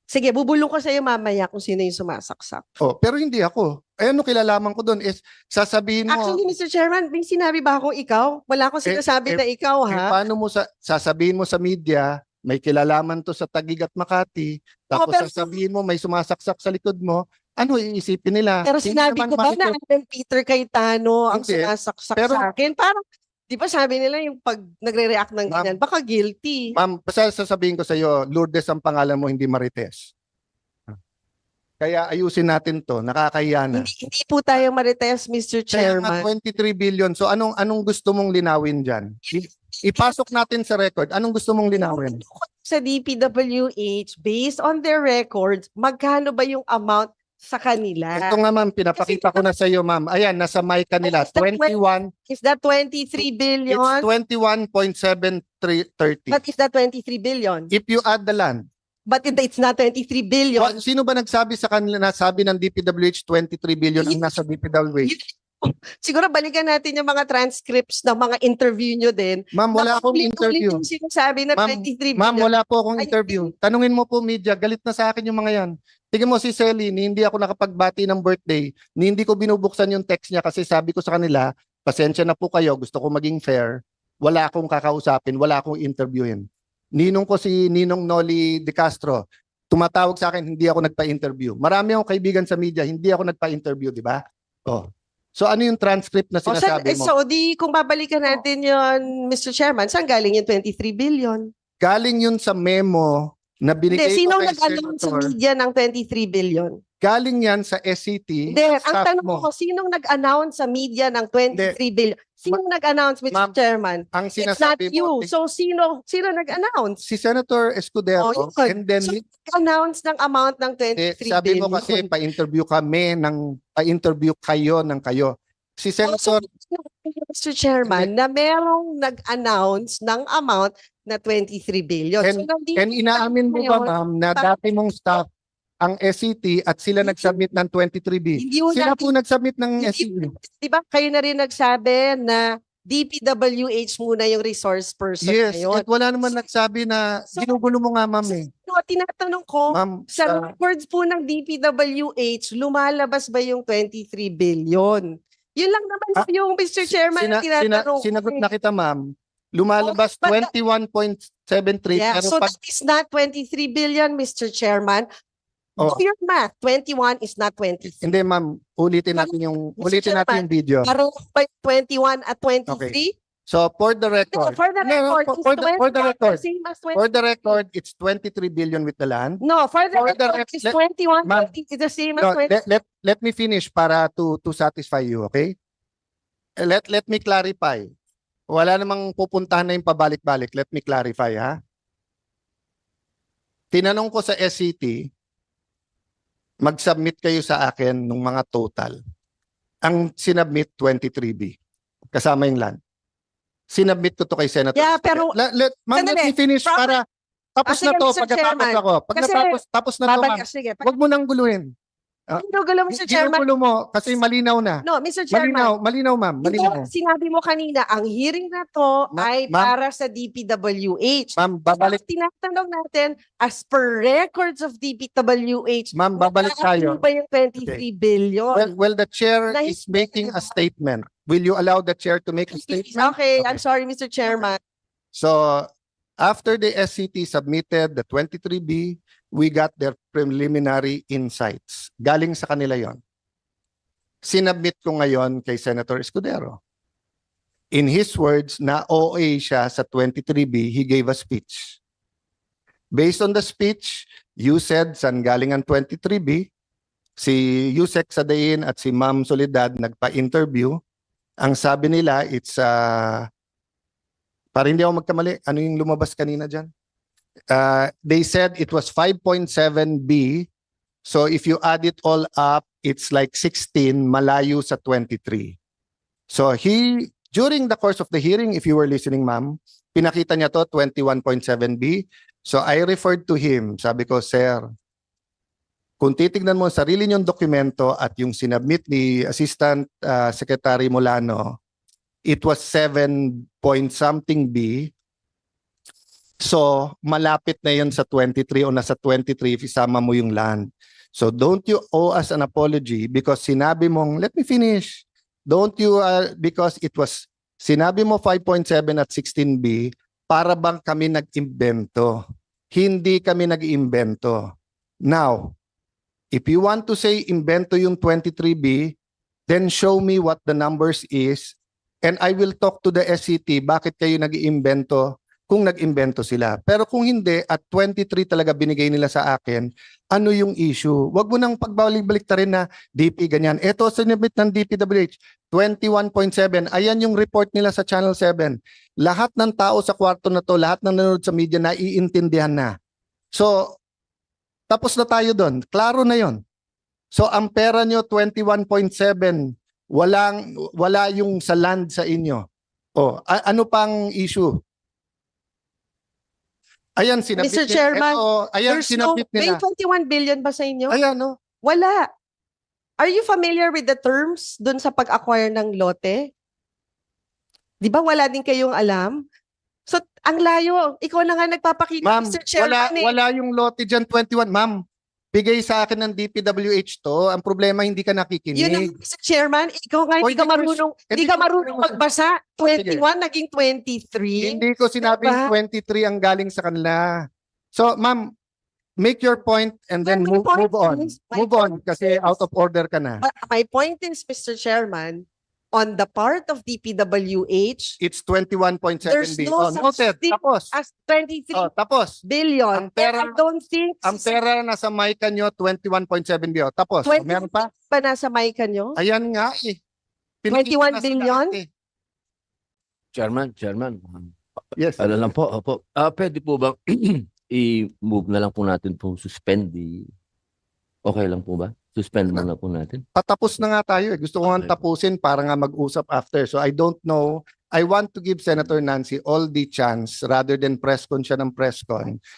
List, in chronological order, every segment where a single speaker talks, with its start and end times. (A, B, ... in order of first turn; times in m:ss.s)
0:00.1-0:02.7 A
0:02.8-0:06.4 B
0:06.1-0:10.2 A
0:08.8-0:19.7 B
0:14.9-0:15.5 A
0:18.6-0:26.7 A
0:21.3-0:22.4 B
0:25.5-0:25.8 B
0:26.7-0:30.1 B
0:31.8-0:33.9 B
0:33.7-0:36.3 A
0:35.7-0:42.2 B
0:39.3-0:40.3 A
0:41.8-0:48.4 A
0:48.1-0:52.1 B
0:49.0-0:49.4 A
0:51.0-0:51.7 A
0:52.3-0:54.1 A
0:53.2-0:56.4 B
0:56.3-0:57.7 A
0:57.7-0:58.6 B
0:59.1-1:00.8 A
1:00.6-1:05.1 B
1:04.0-1:04.4 A
1:05.0-1:13.5 A
1:09.5-1:10.8 B
1:11.6-1:26.4 B
1:27.0-1:37.1 B
1:36.4-1:41.5 A
1:41.8-1:45.3 B
1:43.9-1:46.8 A
1:47.0-1:49.5 B
1:48.5-1:57.0 A
1:54.1-1:55.3 B
1:57.0-1:59.2 B
1:58.2-2:02.1 A
2:01.0-2:06.4 B
2:06.0-2:14.5 A
2:07.8-2:08.1 B
2:12.2-2:15.2 B
2:15.8-2:20.3 B
2:17.0-2:17.4 A
2:18.4-2:19.1 A
2:19.8-2:26.3 A
2:25.2-2:28.5 B
2:27.3-2:27.6 A
2:28.2-2:38.4 A
2:29.7-2:30.5 B
2:36.9-2:42.5 B
2:39.8-2:40.5 A
2:41.9-2:45.1 A
2:45.8-2:48.0 A
2:48.0-2:50.9 B
2:49.1-2:53.1 A
2:52.7-2:56.4 B
2:54.3-2:57.6 A
2:56.9-2:59.4 B
2:59.4-3:02.5 A
2:59.9-3:01.5 B
3:02.2-3:05.5 B
3:06.6-3:07.9 B
3:08.5-3:11.6 B
3:13.7-3:15.1 B
3:16.6-3:19.0 B
3:19.8-3:21.5 B
3:22.1-3:22.8 B
3:23.7-3:27.0 B
3:24.7-3:25.3 A
3:25.9-3:26.9 A
3:27.6-3:31.7 B
3:27.6-3:30.9 A
3:32.3-3:36.8 B
3:32.4-3:33.4 A
3:34.8-3:35.7 A
3:36.4-3:48.7 A
3:39.1-3:39.7 B
3:41.4-3:42.0 B
3:45.9-3:47.0 B
3:48.5-3:53.6 B
3:49.5-3:50.5 A
3:52.5-3:54.6 A
3:55.1-3:55.7 B
3:56.2-4:03.0 B
4:04.2-4:06.6 B
4:07.7-4:11.8 B
4:12.9-4:16.5 B
4:17.2-4:20.8 B
4:21.4-4:23.3 B
4:24.5-4:26.7 B
4:27.5-4:30.5 B
4:31.0-4:35.6 B
4:36.3-4:44.6 B
4:46.0-4:51.6 B
4:52.2-4:54.9 B
4:56.4-5:14.5 B
5:15.0-5:15.5 B
5:16.3-5:19.0 B
5:19.5-5:42.7 B
5:43.3-5:43.8 B
5:44.7-5:46.4 B
5:47.1-5:52.4 B
5:53.0-5:54.6 B
5:57.0-5:59.6 B
5:57.4-6:01.0 A
6:00.9-6:01.4 B
6:01.6-6:02.1 A
6:03.0-6:06.3 A
6:07.8-6:09.2 A
6:09.9-6:13.1 A
6:12.0-6:14.8 B
6:15.3-6:18.9 B
6:18.5-6:25.5 A
6:20.2-6:22.0 B
6:22.7-6:23.0 B
6:24.4-6:28.3 B
6:29.0-6:33.2 B
6:30.0-6:32.4 A
6:33.2-6:38.0 A
6:38.0-6:40.7 B
6:39.0-6:41.7 A
6:41.5-6:42.2 B
6:42.2-6:44.4 A
6:42.7-6:43.4 B
6:44.0-6:47.7 B
6:47.0-6:49.0 A
6:49.0-6:49.8 B
6:50.4-6:51.7 B
6:50.5-6:51.6 A
6:53.1-6:54.3 C
6:54.7-6:55.1 B
6:55.0-7:00.1 C
7:01.0-7:03.0 C
7:03.2-7:12.2 B
7:04.4-7:04.7 C